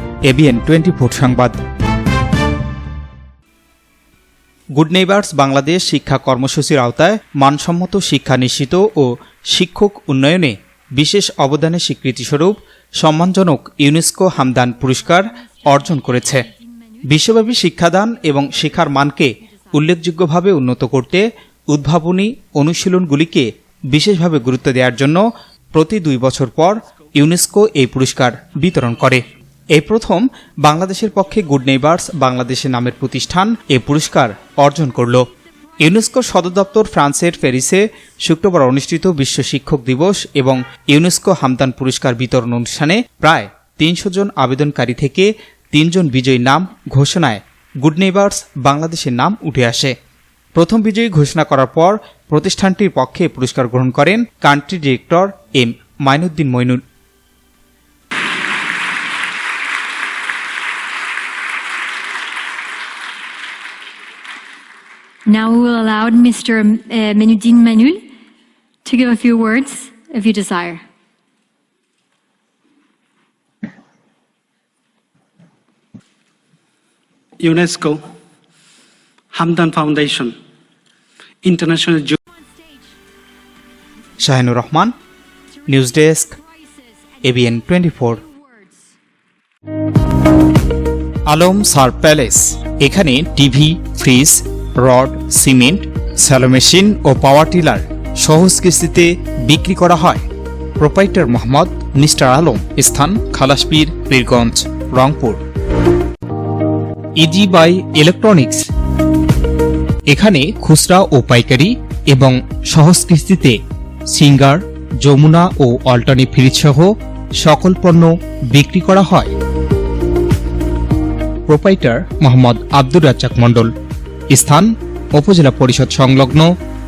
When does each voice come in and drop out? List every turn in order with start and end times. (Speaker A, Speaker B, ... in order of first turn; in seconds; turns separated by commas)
Speaker A: 0.2-1.6, Speaker A: 4.7-16.5, Speaker B: 16.5-16.9, Speaker A: 17.0-29.2, Speaker A: 29.7-35.3, Speaker A: 35.8-49.9, Speaker A: 50.5-56.8, Speaker B: 65.3-68.1, Speaker B: 68.8-70.8, Speaker C: 77.4-78.0, Speaker C: 79.3-80.3, Speaker C: 81.4-82.2, Speaker A: 84.2-84.9, Speaker A: 85.7-86.4, Speaker A: 87.2-88.2, Speaker A: 91.3-100.2, Speaker A: 100.8-105.4, Speaker A: 107.2-108.6, Speaker A: 110.1-119.3, Speaker A: 121.5-123.7, Speaker A: 124.3-126.5